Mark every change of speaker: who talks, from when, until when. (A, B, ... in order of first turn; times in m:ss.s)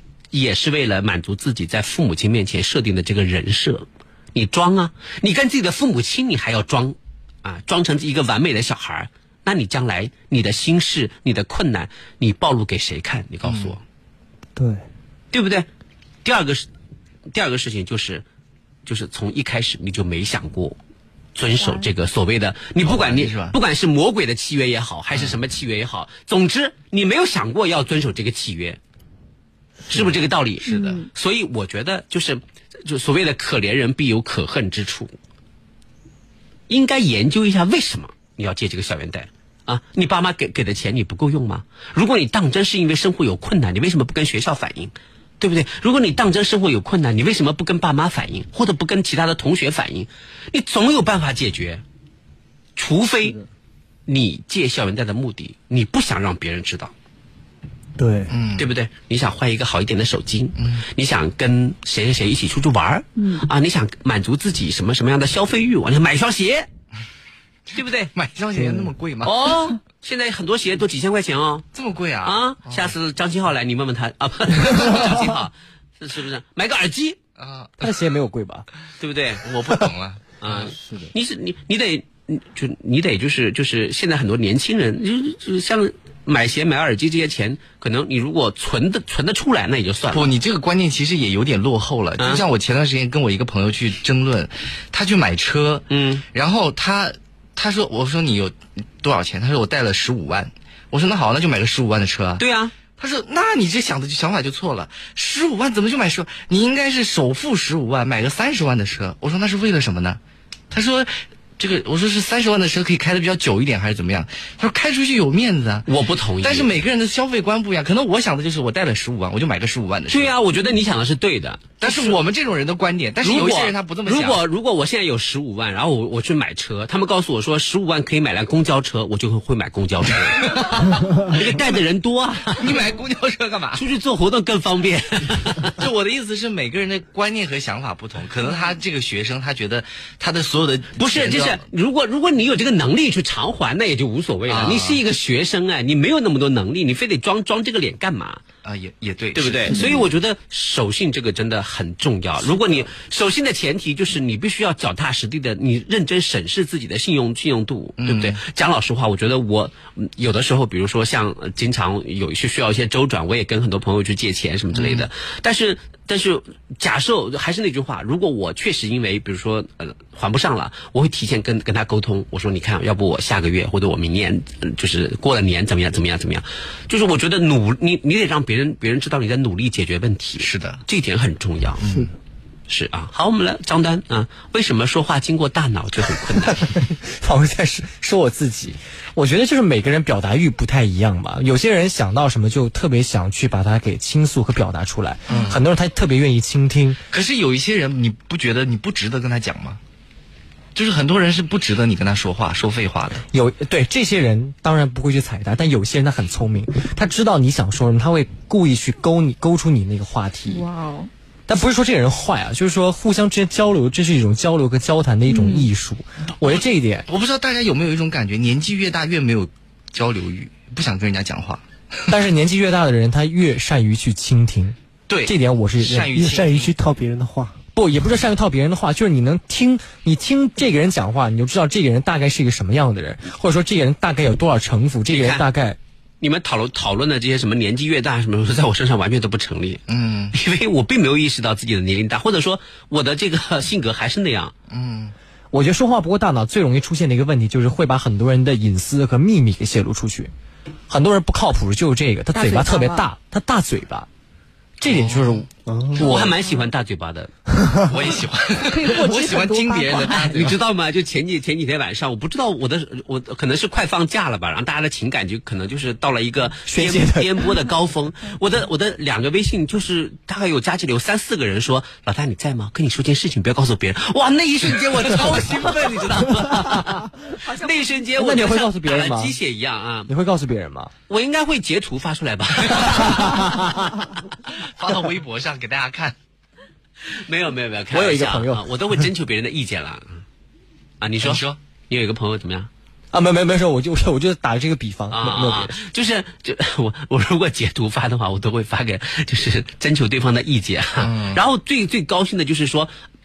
0:00.3-0:13.8 A
0:13.4-0:13.8 B
0:14.6-0:14.8 C
0:15.3-0:15.7 A
0:16.2-0:16.7 A
0:17.3-0:18.2 A
0:18.8-0:20.8 A
0:21.4-0:28.8 A
0:21.6-0:21.9 D
0:22.8-0:23.6 B
0:25.1-0:25.4 B
0:29.9-0:35.1 A
0:30.6-0:31.0 D
0:36.7-0:51.8 A
0:52.8-0:53.4 A
0:54.1-0:56.9 A
0:58.0-0:58.3 C
0:58.3-0:58.7 B
0:58.6-1:06.7 A
1:00.6-1:00.8 B
1:03.2-1:03.4 D
1:07.7-1:08.1 A
1:08.1-1:09.5 B
1:09.2-1:11.7 A
1:11.7-1:12.9 B
1:12.2-1:17.2 A
1:14.7-1:15.1 B
1:17.4-1:18.0 B
1:17.8-1:18.7 E
1:19.0-1:19.4 A
1:19.4-1:20.8 B
1:20.4-1:30.3 A
1:20.8-1:21.1 C
1:30.1-1:42.4 B
1:35.9-1:36.2 A
1:42.4-1:42.7 A
1:43.0-1:50.2 B
1:50.7-1:55.9 B
1:55.8-1:56.8 A
1:56.4-2:00.4 B
2:00.1-2:02.2 A
2:01.8-2:04.4 B
2:03.2-2:12.7 A
2:10.3-2:11.6 B
2:12.6-2:13.8 B
2:13.7-2:15.8 A
2:15.8-2:21.6 B
2:21.0-2:28.4 A
2:24.5-2:25.0 B
2:28.6-2:30.1 B
2:29.3-3:01.8 A
2:29.7-2:30.0 D
2:32.4-2:32.9 B
2:38.0-2:38.4 B
2:44.7-2:45.1 B
3:00.4-3:00.8 B
3:01.8-3:02.1 B
3:02.7-3:06.6 A
3:06.6-3:17.0 E
3:15.3-3:15.6 B
3:17.1-3:19.8 B
3:20.7-3:23.2 B
3:23.3-3:30.6 E
3:30.5-3:31.1 D
3:31.5-3:37.1 E
3:35.3-3:35.7 D
3:36.4-3:41.6 B
3:42.1-3:46.2 E
3:45.1-3:46.7 B
3:46.0-3:47.6 C
3:47.7-3:55.8 E
3:55.1-3:55.4 A
3:56.2-4:04.5 A
3:59.9-4:00.3 B
4:04.7-4:05.1 B
4:05.5-4:10.3 E
4:10.9-4:14.1 E
4:12.3-4:13.1 D
4:14.8-4:15.5 E
4:14.8-4:16.3 B
4:15.6-4:16.0 C
4:16.0-4:17.3 A
4:17.6-4:17.8 C
4:17.9-4:20.6 B
4:18.6-4:20.2 D
4:20.0-4:40.1 A
4:26.6-4:27.5 E
4:35.0-4:36.7 B
4:37.3-4:38.0 D
4:38.2-4:39.4 E
4:40.1-4:40.9 E
4:41.1-4:43.5 A
4:42.8-4:43.2 B
4:43.0-4:43.9 E
4:44.4-4:46.1 B
4:47.1-4:50.2 A
4:47.9-4:48.7 E
4:51.0-4:52.7 A
4:51.2-4:51.6 B
4:53.1-4:55.8 E
4:55.1-5:02.9 A
5:01.0-5:01.4 B